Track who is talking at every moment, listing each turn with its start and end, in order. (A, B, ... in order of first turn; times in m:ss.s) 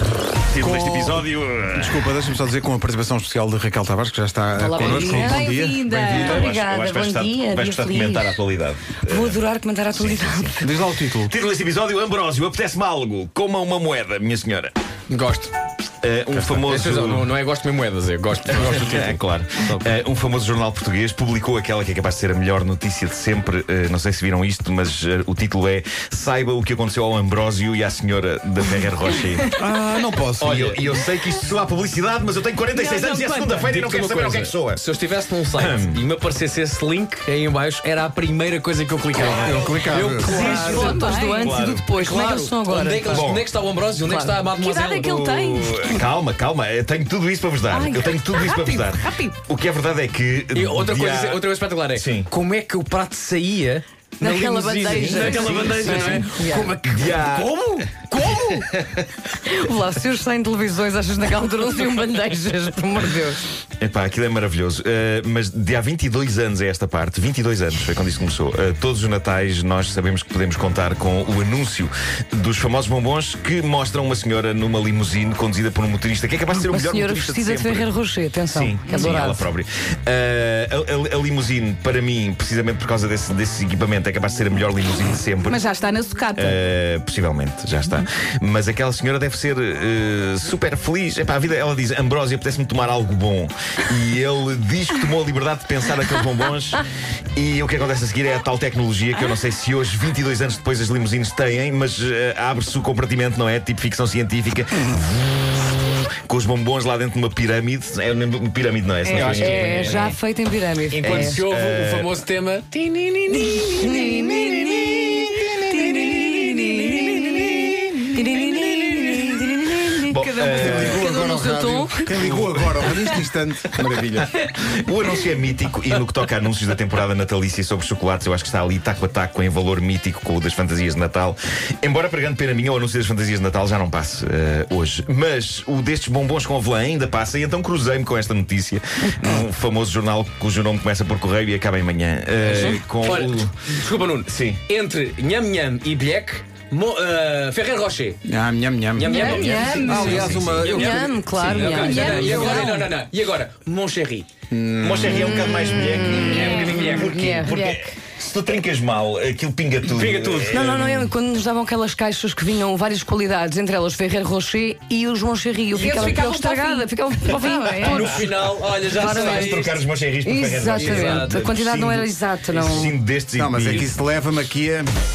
0:00.5-0:02.1 A
0:00.6-0:05.9 B
0:04.6-0:08.4 C
0:04.7-0:06.4 D
0:05.8-0:10.6 A
0:09.0-0:10.7 C
0:10.6-0:11.3 B
0:11.2-0:14.7 A
0:15.1-0:15.5 E
0:16.0-0:17.3 A
0:16.6-0:19.9 E
0:18.5-0:29.5 A
0:29.5-0:30.6 B
0:30.4-0:34.8 A
0:30.4-0:30.8 E
0:32.8-0:41.1 E
0:35.5-0:36.0 A
0:39.2-0:40.6 B
0:39.4-0:39.7 A
0:40.0-0:41.6 D
0:40.2-0:43.2 C
0:40.5-0:41.8 A
0:41.9-0:45.2 E
0:43.0-0:43.5 A
0:43.9-0:45.8 C
0:44.6-0:45.9 D
0:45.2-0:52.3 A
0:47.7-0:49.3 D
0:50.5-0:58.9 E
0:54.2-0:56.7 C
0:54.8-0:56.3 A
0:56.9-0:57.6 A
0:58.2-0:58.6 A
0:59.4-1:03.4 C
1:03.8-1:17.9 A
1:16.6-1:19.5 C
1:18.5-1:25.7 A
1:25.4-1:26.6 D
1:26.3-1:36.8 A
1:37.3-1:50.2 A
1:49.1-1:50.2 E
1:49.2-1:51.4 C
1:50.9-1:55.1 E
1:51.0-1:52.1 A
1:53.4-2:02.3 C
1:56.0-1:57.4 E
1:57.6-1:58.0 A
1:58.5-1:59.1 E
2:00.0-2:01.1 A
2:00.4-2:04.4 B
2:02.1-2:02.8 A
2:04.5-2:23.6 A
2:22.4-2:28.2 E
2:24.3-2:24.6 A
2:28.3-2:31.2 B
2:28.9-2:34.3 E
2:29.1-2:30.2 D
2:29.8-2:30.0 C
2:30.0-2:30.7 A
2:30.6-2:32.9 C
2:31.6-2:32.9 D
2:32.1-2:32.7 B
2:34.5-2:35.5 B
2:34.8-2:41.0 A
2:35.7-2:37.6 C
2:36.1-2:37.2 E
2:37.5-2:37.8 D
2:39.8-2:41.0 E
2:40.5-2:48.2 C
2:45.7-2:48.2 D
2:47.7-2:49.8 E
2:48.8-2:49.6 C
2:49.0-2:53.9 A
2:50.2-2:52.9 C
2:50.7-2:51.4 E
2:53.3-2:54.9 B